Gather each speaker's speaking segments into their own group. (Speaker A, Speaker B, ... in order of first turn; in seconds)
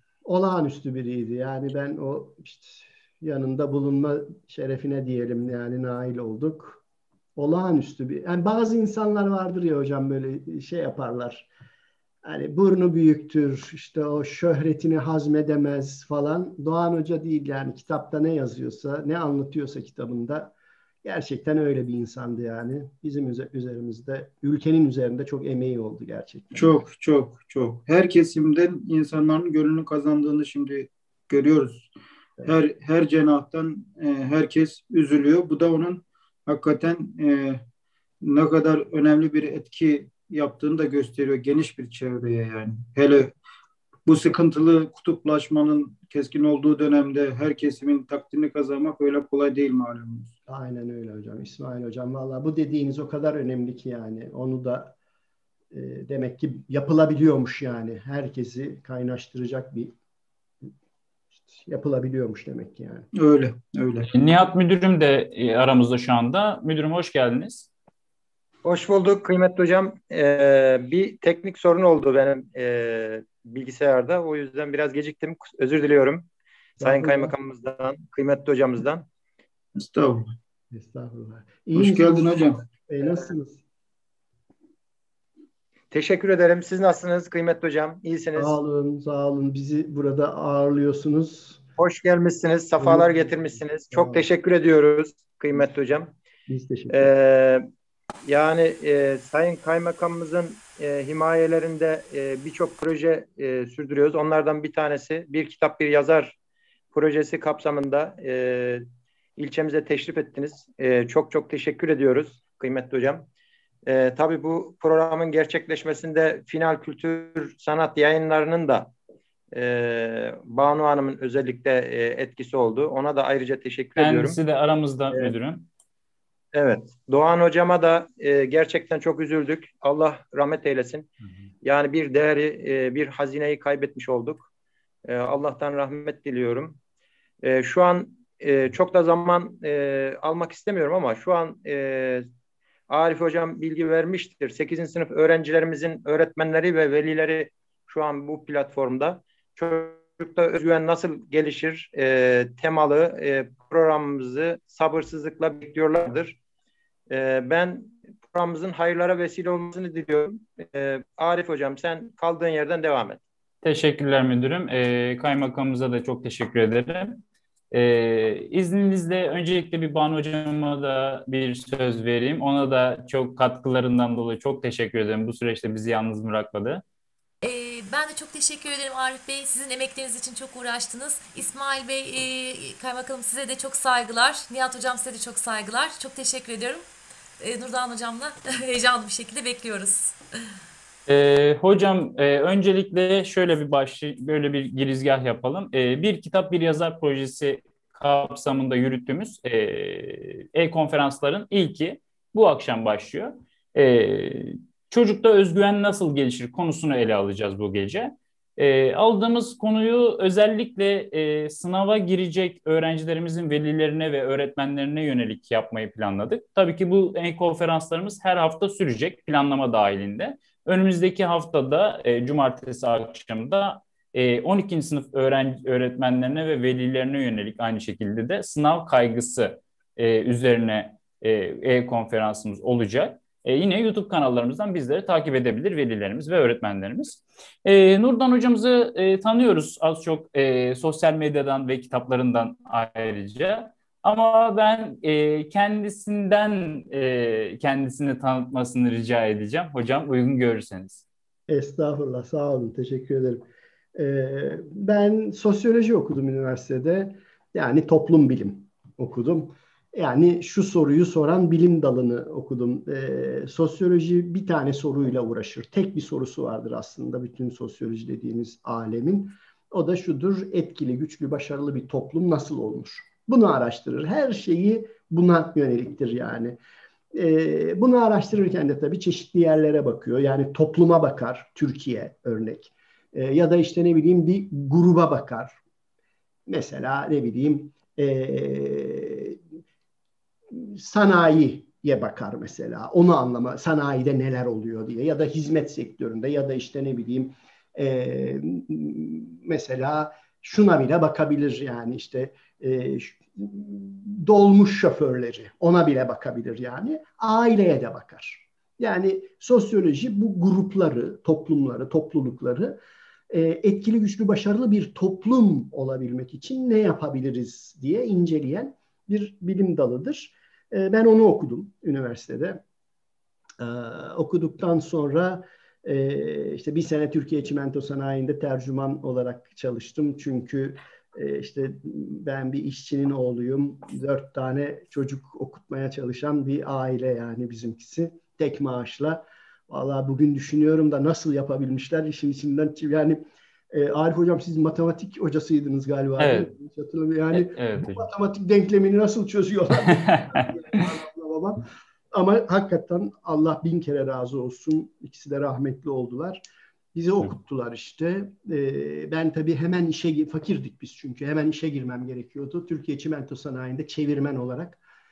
Speaker A: 0.3-6.8, 7.4-11.5, 12.2-26.8, 50.5-54.9, 55.7-59.9, 61.4-63.1, 76.8-77.3, 80.7-83.6, 88.4-91.6, 92.8-94.3, 96.5-97.1, 251.5-276.6, 277.1-285.6, 286.5-289.4, 290.5-312.8, 313.3-322.6, 323.6-364.8
Speaker B: 26.5-31.9, 32.5-37.6, 38.2-43.3, 44.1-50.3, 63.1-64.1, 79.8-80.3, 81.8-82.6
Speaker C: 64.1-67.7, 124.0-125.7, 163.6-167.2, 167.7-176.8, 191.1-251.1, 346.2-346.5, 347.3-348.0
Speaker D: 68.7-76.3, 76.8-79.0, 85.9-88.6, 91.8-96.1, 96.9-97.7, 98.3-106.4, 106.9-108.9, 109.4-113.3, 113.9-118.9, 119.5-124.4, 126.5-131.1, 131.6-134.5, 135.1-136.8, 137.4-142.3, 142.9-156.4, 157.1-163.2
Speaker E: 177.4-186.8, 187.4-190.2